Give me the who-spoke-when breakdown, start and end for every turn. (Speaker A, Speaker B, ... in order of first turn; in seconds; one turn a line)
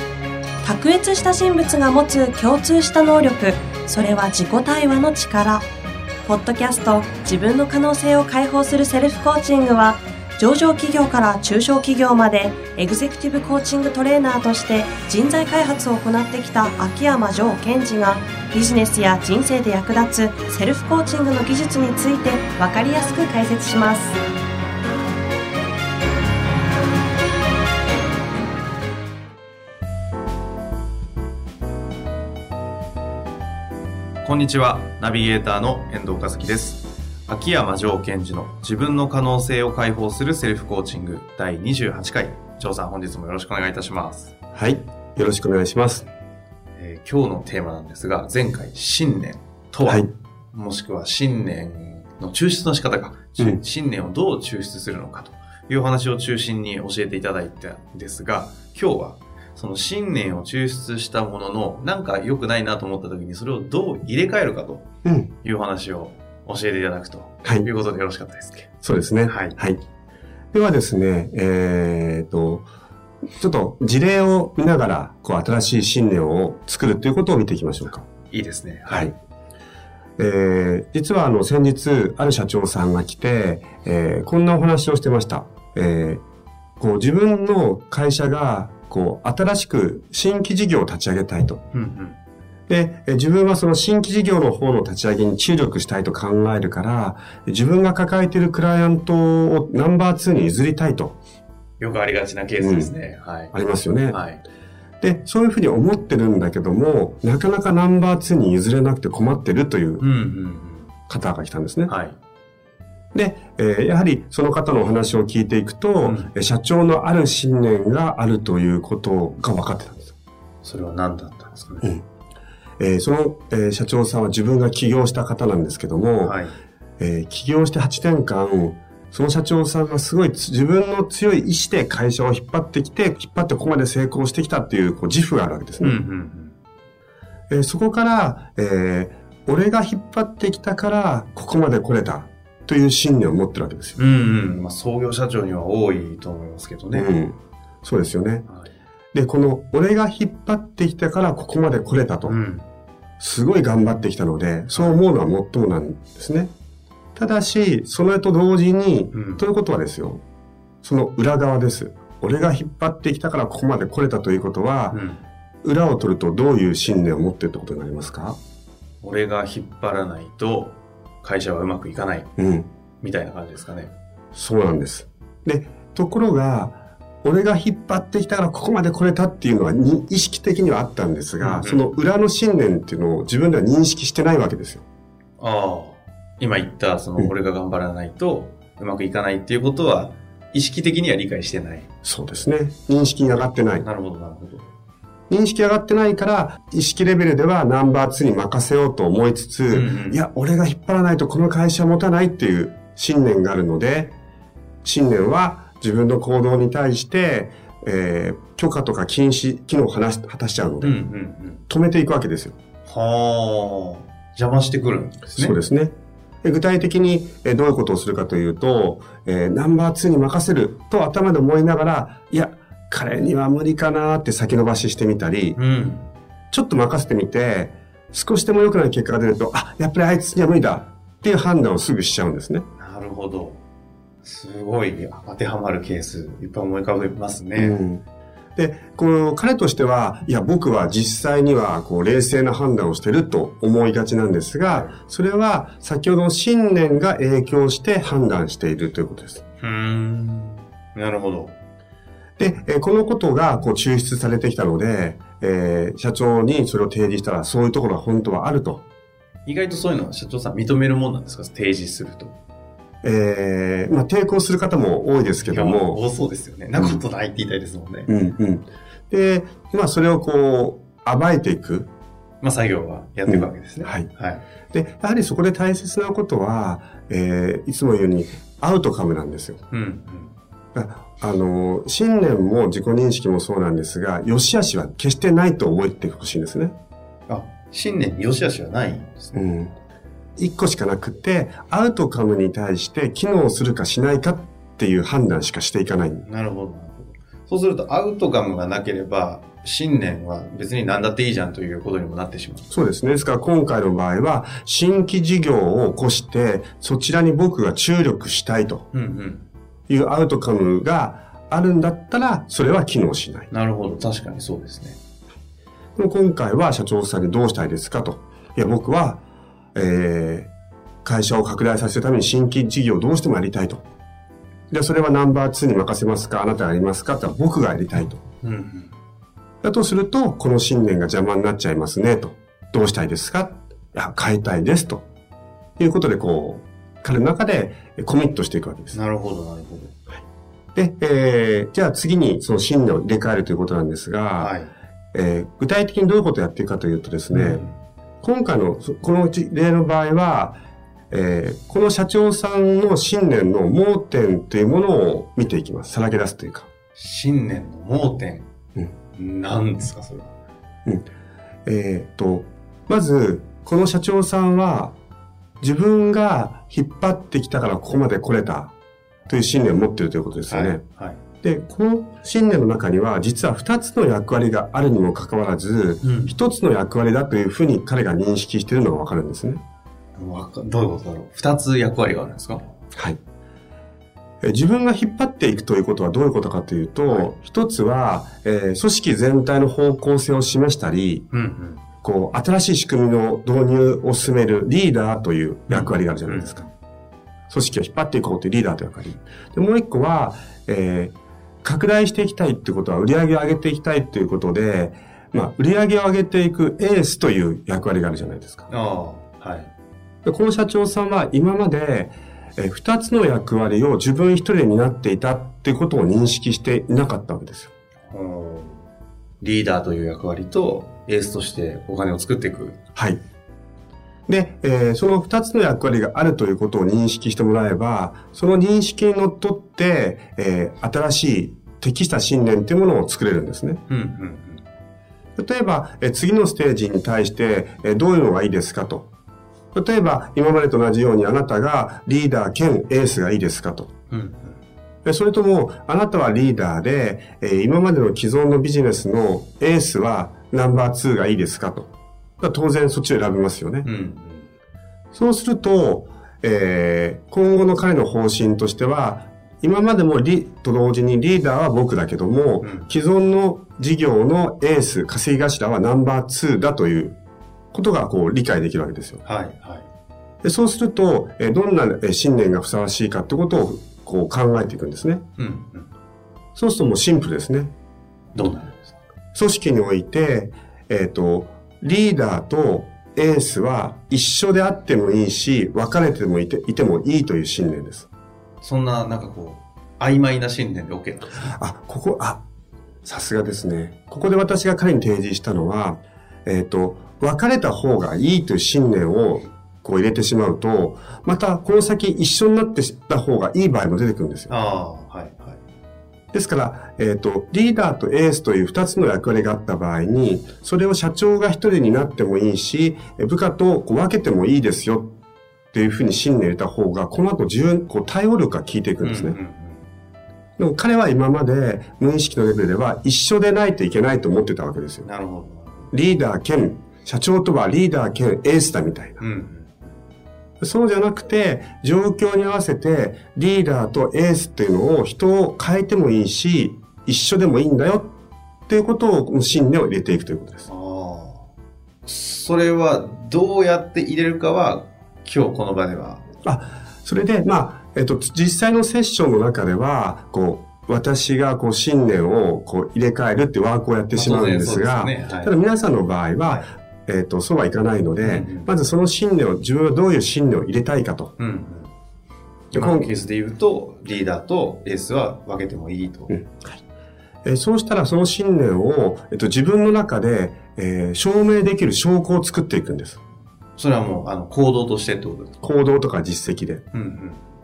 Speaker A: 0.6-5.6
Speaker A: 6.2-24.2
Speaker B: 34.2-44.3
Speaker C: 44.5-46.0
Speaker B: 46.8-64.9
Speaker C: 65.0-65.3
Speaker B: 65.4-68.7
Speaker C: 68.8-69.8
Speaker B: 69.2-69.6
Speaker C: 70.5-72.7
Speaker C: 73.4-78.1
Speaker B: 78.3-79.2
Speaker C: 80.2-86.2
Speaker C: 86.8-91.6
Speaker B: 91.7-92.2
Speaker C: 92.7-101.2
Speaker B: 101.8-103.5
Speaker C: 102.6-102.9
Speaker C: 103.5-104.2
Speaker B: 104.1-104.4
Speaker C: 105.0-110.1
Speaker B: 110.0-110.9
Speaker C: 111.1-111.9
Speaker B: 111.9-112.2
Speaker C: 113.1-120.1
Speaker B: 116.0-116.3
Speaker B: 120.6-121.9
Speaker C: 122.8-126.3
Speaker B: 126.2-126.6
Speaker C: 127.0-136.0
Speaker B: 135.8-136.5
Speaker C: 137.5-144.0
Speaker B: 144.0-147.1
Speaker C: 146.9-148.4
Speaker C: 149.1-152.3
Speaker B: 152.2-152.7
Speaker C: 153.2-156.5
Speaker B: 154.8-155.0
Speaker C: 157.2-160.2
Speaker B: 159.1-159.4
Speaker C: 160.8-165.0
Speaker B: 164.9-165.2
Speaker C: 165.6-168.4
Speaker B: 169.0-172.3
Speaker C: 172.4-172.7
Speaker B: 173.0-173.9
Speaker C: 174.3-184.8
Speaker B: 181.4-182.0
Speaker B: 185.4-191.9
Speaker C: 192.0-193.8
Speaker B: 193.8-194.6
Speaker C: 195.3-204.1
Speaker B: 199.7-200.2
Speaker C: 204.8-211.0
Speaker B: 210.8-211.6
Speaker C: 211.7-212.6
Speaker B: 212.8-215.6
Speaker C: 215.3-225.6
Speaker B: 225.6-226.1
Speaker C: 226.5-232.7
Speaker B: 232.8-233.6
Speaker B: 234.2-237.8
Speaker C: 237.6-238.0
Speaker C: 238.6-249.4
Speaker B: 244.6-244.9
Speaker B: 249.6-251.6
Speaker C: 252.4-258.8
Speaker B: 259.4-262.3
Speaker C: 263.0-266.0
Speaker B: 265.4-268.1
Speaker C: 266.8-267.0
Speaker C: 268.1-271.9
Speaker B: 272.4-274.4
Speaker C: 273.3-274.1
Speaker C: 274.7-279.6
Speaker B: 279.7-280.3
Speaker C: 280.7-286.7
Speaker B: 287.3-289.4
Speaker C: 289.3-289.7
Speaker C: 290.4-296.2
Speaker B: 296.2-302.7
Speaker C: 302.7-308.9
Speaker B: 308.9-309.4
Speaker C: 309.9-313.5
Speaker B: 313.5-315.0
Speaker C: 315.9-319.2
Speaker C: 319.8-320.5
Speaker C: 321.1-323.8
Speaker C: 324.7-328.2
Speaker B: 328.4-328.9
Speaker C: 329.6-335.0
Speaker C: 335.8-338.9
Speaker B: 338.9-339.9
Speaker C: 340.8-344.5
Speaker B: 344.4-344.7
Speaker C: 345.1-347.6
Speaker B: 347.3-347.8
Speaker C: 348.2-350.6
Speaker C: 351.1-356.7
Speaker B: 356.9-358.5
Speaker B: 359.1-360.3
Speaker C: 361.6-364.9
Speaker C: 365.6-368.7
Speaker C: 369.3-370.8
Speaker B: 370.5-371.2
Speaker C: 371.4-379.6
Speaker B: 376.0-376.3
Speaker B: 380.1-382.7
Speaker C: 384.4-391.2
Speaker B: 391.3-391.8
Speaker C: 392.0-396.6
Speaker B: 395.7-396.7
Speaker C: 397.5-408.7
Speaker B: 408.7-409.7
Speaker C: 410.2-417.7
Speaker B: 418.1-418.9
Speaker B: 419.4-422.8
Speaker C: 422.9-423.2
Speaker C: 424.3-433.8
Speaker B: 433.9-434.6
Speaker C: 435.4-439.1
Speaker C: 439.7-443.9
Speaker B: 444.1-444.6
Speaker C: 445.1-453.9
Speaker B: 453.8-454.5
Speaker C: 455.1-467.1
Speaker B: 462.6-462.9
Speaker C: 467.7-469.2
Speaker B: 469.2-469.9
Speaker C: 470.4-475.2
Speaker B: 475.4-475.9
Speaker C: 476.6-477.7
Speaker B: 478.3-478.9
Speaker C: 479.3-488.1
Speaker B: 488.6-491.5
Speaker C: 491.4-492.4
Speaker C: 493.1-504.5
Speaker B: 504.5-505.6
Speaker C: 506.3-515.1
Speaker C: 515.7-519.4
Speaker B: 519.0-519.9
Speaker C: 520.6-525.1
Speaker B: 525.0-525.9
Speaker C: 525.9-529.2
Speaker B: 529.2-530.0
Speaker C: 530.6-538.1
Speaker C: 538.7-540.7
Speaker B: 540.7-541.5
Speaker B: 542.0-546.2
Speaker C: 546.4-561.3
Speaker B: 554.1-555.5
Speaker B: 558.2-558.7
Speaker B: 561.4-561.9
Speaker C: 562.7-563.1
Speaker B: 562.7-566.4
Speaker C: 566.3-566.8
Speaker C: 567.4-573.2
Speaker B: 573.8-575.5
Speaker C: 575.6-576.8
Speaker B: 576.9-577.5